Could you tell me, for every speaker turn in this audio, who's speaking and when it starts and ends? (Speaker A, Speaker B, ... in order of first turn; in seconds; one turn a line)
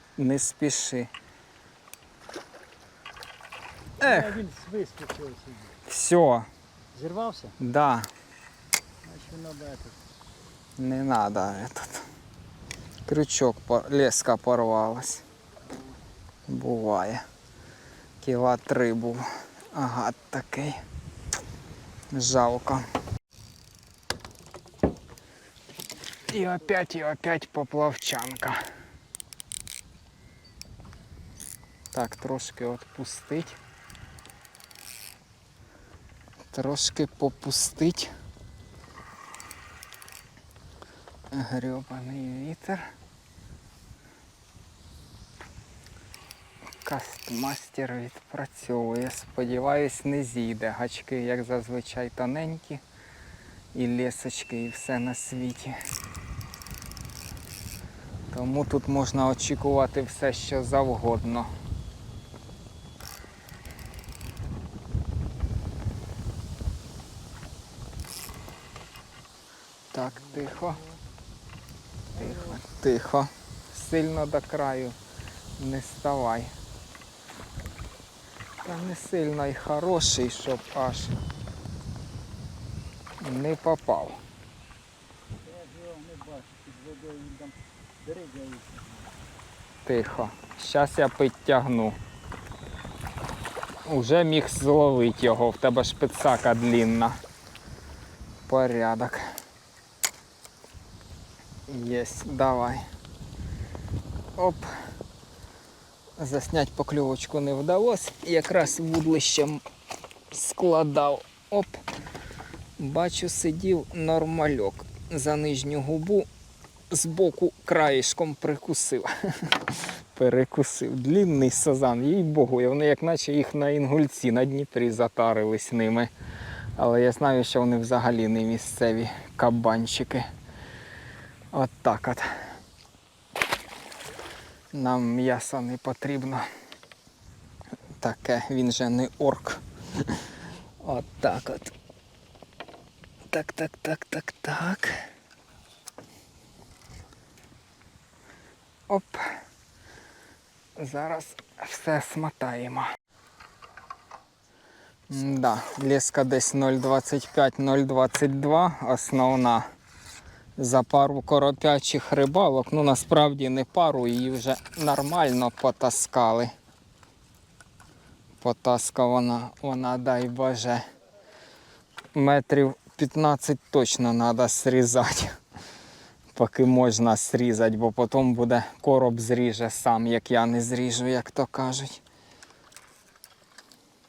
Speaker A: 0.2-1.1
Speaker A: 4.0-4.4
Speaker B: 4.0-5.7
Speaker A: 5.9-6.5
Speaker B: 6.9-7.6
Speaker A: 7.6-8.1
Speaker B: 9.0-10.0
Speaker A: 10.8-12.0
Speaker A: 13.1-15.2
Speaker A: 16.5-17.2
Speaker A: 18.2-20.8
Speaker A: 22.1-22.9
Speaker A: 26.3-28.6
Speaker A: 31.9-33.6
Speaker A: 36.5-38.1
Speaker A: 41.3-42.9
Speaker A: 46.8-52.8
Speaker A: 53.7-55.8
Speaker A: 58.3-61.5
Speaker A: 69.9-70.8
Speaker A: 72.1-75.0
Speaker A: 75.6-76.5
Speaker A: 78.6-81.1
Speaker A: 83.2-84.2
Speaker B: 85.4-89.1
Speaker A: 89.8-92.0
Speaker A: 93.8-97.2
Speaker A: 98.5-99.3
Speaker A: 101.7-102.8
Speaker A: 104.4-104.7
Speaker A: 106.2-109.6
Speaker A: 110.3-111.8
Speaker A: 112.8-116.3
Speaker A: 116.9-126.1
Speaker A: 126.8-130.3
Speaker A: 131.5-132.3
Speaker A: 134.7-136.5
Speaker A: 138.0-140.3
Speaker A: 140.8-141.7
Speaker A: 143.3-145.1
Speaker A: 148.9-149.3
Speaker A: 150.8-152.9
Speaker A: 155.1-159.7
Speaker A: 160.6-166.5
Speaker A: 168.4-170.8
Speaker A: 172.2-175.4
Speaker A: 176.3-182.0